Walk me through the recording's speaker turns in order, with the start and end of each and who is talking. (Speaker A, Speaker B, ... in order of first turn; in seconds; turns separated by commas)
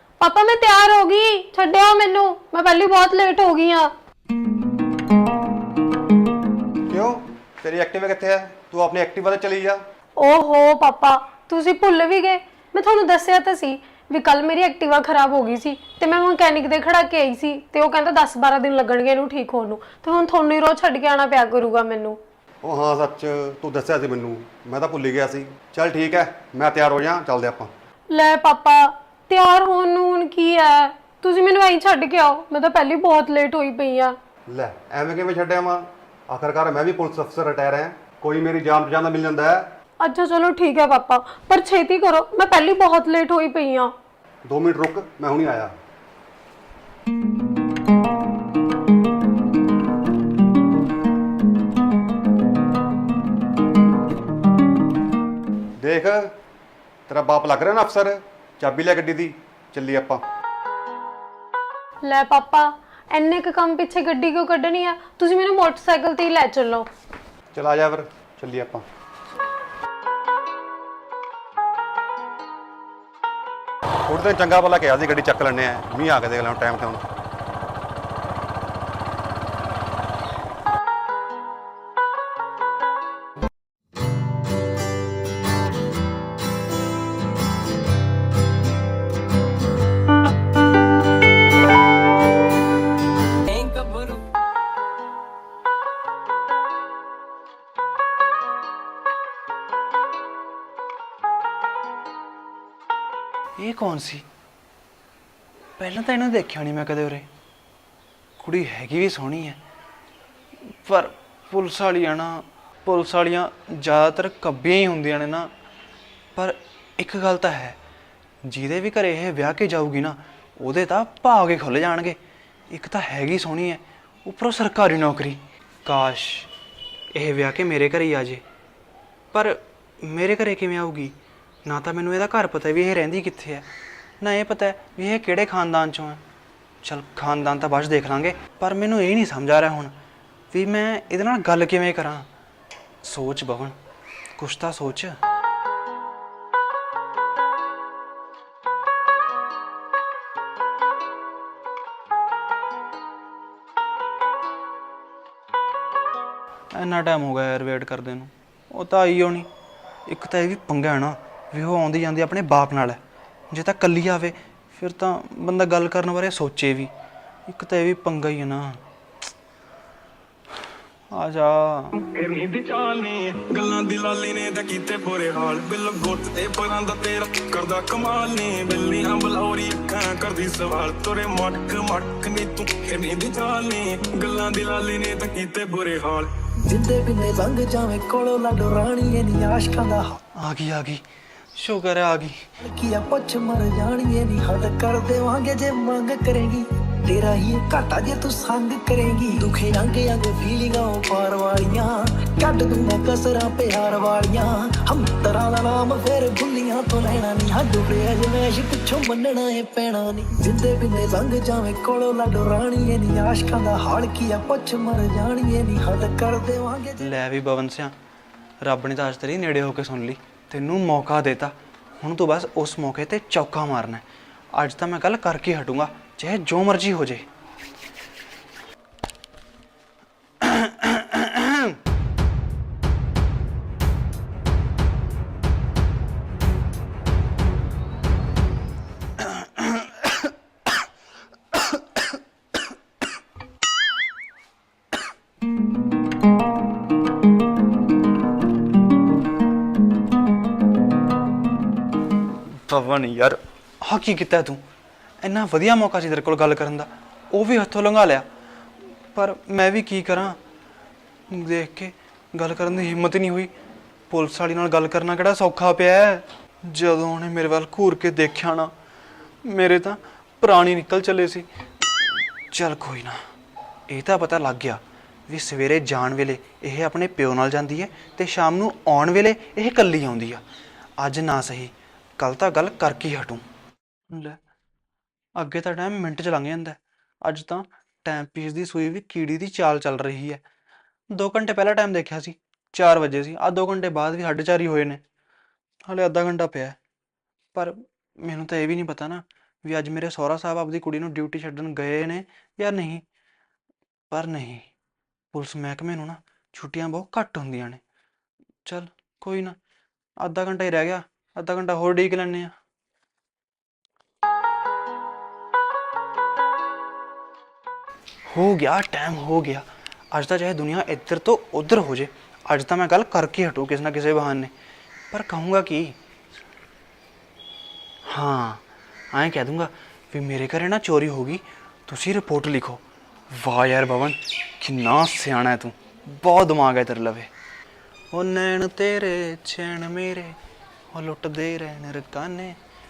Speaker A: 0.2-3.9, Speaker B: 6.9-9.8, Speaker A: 10.2-22.2, Speaker B: 22.6-27.7, Speaker A: 28.1-34.2, Speaker B: 34.5-39.7, Speaker A: 40.0-43.9, Speaker B: 44.5-45.8, Speaker B: 55.8-56.3, Speaker B: 57.1-60.2, Speaker A: 62.0-66.9, Speaker B: 67.5-68.8, Speaker B: 74.1-77.0, Speaker C: 93.5-94.2, Speaker D: 103.6-104.3, Speaker D: 105.8-107.3, Speaker D: 108.4-109.6, Speaker D: 110.7-115.5, Speaker D: 116.3-117.8, Speaker D: 118.4-122.2, Speaker D: 122.7-126.5, Speaker D: 127.1-128.4, Speaker D: 129.3-133.7, Speaker D: 134.2-136.2, Speaker D: 136.8-140.0, Speaker D: 140.5-142.3, Speaker D: 143.0-143.8, Speaker D: 144.4-145.2, Speaker D: 156.7-159.5, Speaker D: 160.1-166.9, Speaker D: 167.5-168.8, Speaker D: 171.1-172.0, Speaker C: 172.0-186.3, Speaker E: 186.7-190.2, Speaker D: 190.3-191.1, Speaker D: 191.6-192.4, Speaker E: 192.6-217.0, Speaker D: 217.0-218.0, Speaker D: 218.6-227.3, Speaker D: 230.4-231.8, Speaker D: 239.2-240.9, Speaker D: 241.5-242.2, Speaker D: 252.7-254.6, Speaker D: 255.2-258.3, Speaker D: 259.1-260.4, Speaker D: 261.3-263.5, Speaker D: 264.1-268.7, Speaker D: 269.4-273.2, Speaker D: 273.9-280.4, Speaker D: 281.0-283.4, Speaker D: 284.1-284.4, Speaker D: 285.4-290.4, Speaker D: 291.1-295.0, Speaker D: 295.9-296.8, Speaker D: 297.5-303.0, Speaker D: 304.1-304.7, Speaker D: 305.3-307.8, Speaker D: 308.6-309.6, Speaker D: 310.2-312.5, Speaker D: 318.3-324.5, Speaker D: 325.1-326.0, Speaker D: 328.1-337.3, Speaker D: 338.1-340.4, Speaker D: 340.9-342.6